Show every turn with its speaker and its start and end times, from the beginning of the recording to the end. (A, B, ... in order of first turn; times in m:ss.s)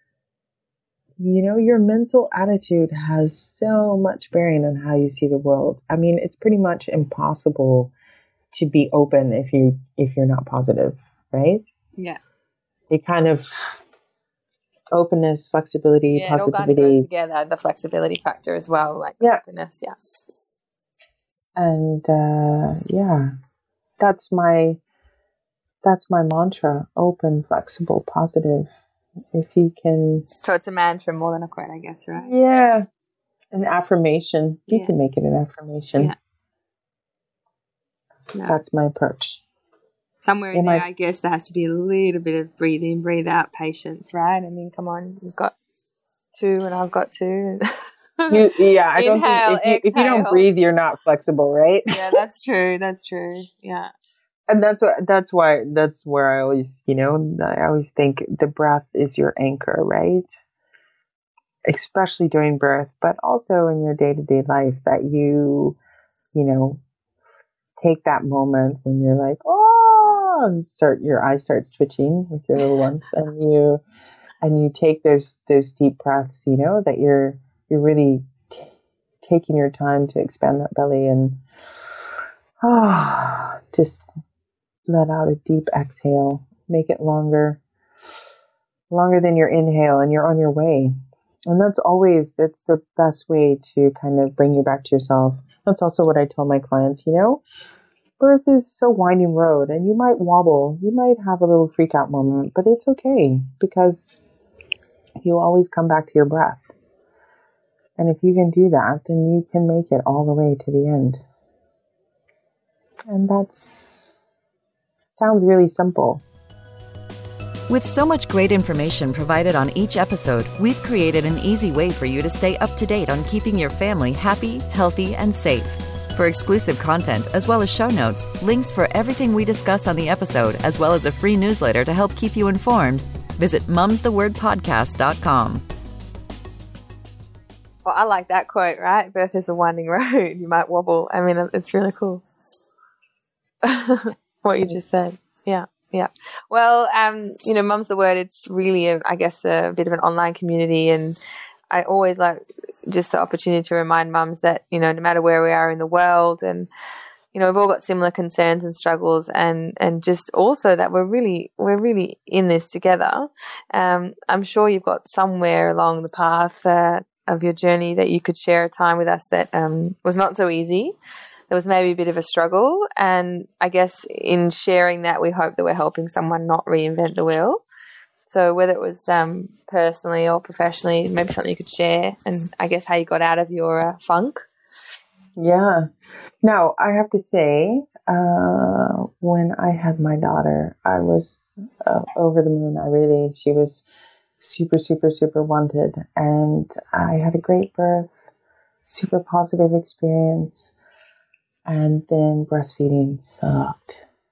0:01.2-0:07.9 A
0:08.5-0:11.6 A
0:12.9-0:13.8 A
0:14.9-0:17.1 A
0:16.1-0:20.0 B
0:21.6-0:23.3 A
0:24.0-0:24.8 A
0:25.8-0:28.7 A
0:29.3-0:30.3 A
0:30.4-0:32.4 B
0:32.2-0:32.9 A
0:33.5-0:36.1 A
0:38.3-0:38.6 B
0:38.4-0:39.4 A
0:40.2-0:45.5 B
0:40.5-0:40.9 A
0:46.4-0:50.5 B
0:48.3-0:52.2 A
0:51.9-0:53.9 B
0:54.5-1:00.3 A
1:01.7-1:05.8 A
1:06.3-1:06.8 A
1:07.8-1:13.8 A
1:14.4-1:18.6 A
1:19.2-1:21.4 A
1:22.6-1:24.0 A
1:24.9-1:27.6 A
1:28.9-1:30.9 A
1:31.5-1:37.4 A
1:38.2-1:44.2 A
1:45.2-1:46.6 A
1:48.0-1:51.2 A
1:53.1-1:54.1 A
1:55.1-1:56.2 A
1:57.7-2:15.6 C
2:17.8-2:22.2 B
2:23.6-2:31.2 B
2:31.7-2:36.7 B
2:37.3-2:51.0 B
2:51.5-2:57.6 B
2:58.3-3:04.4 B
3:05.4-3:05.9 A
3:06.4-3:13.8 A
3:14.4-3:18.1 A
3:18.9-3:20.7 A
3:21.7-3:24.0 A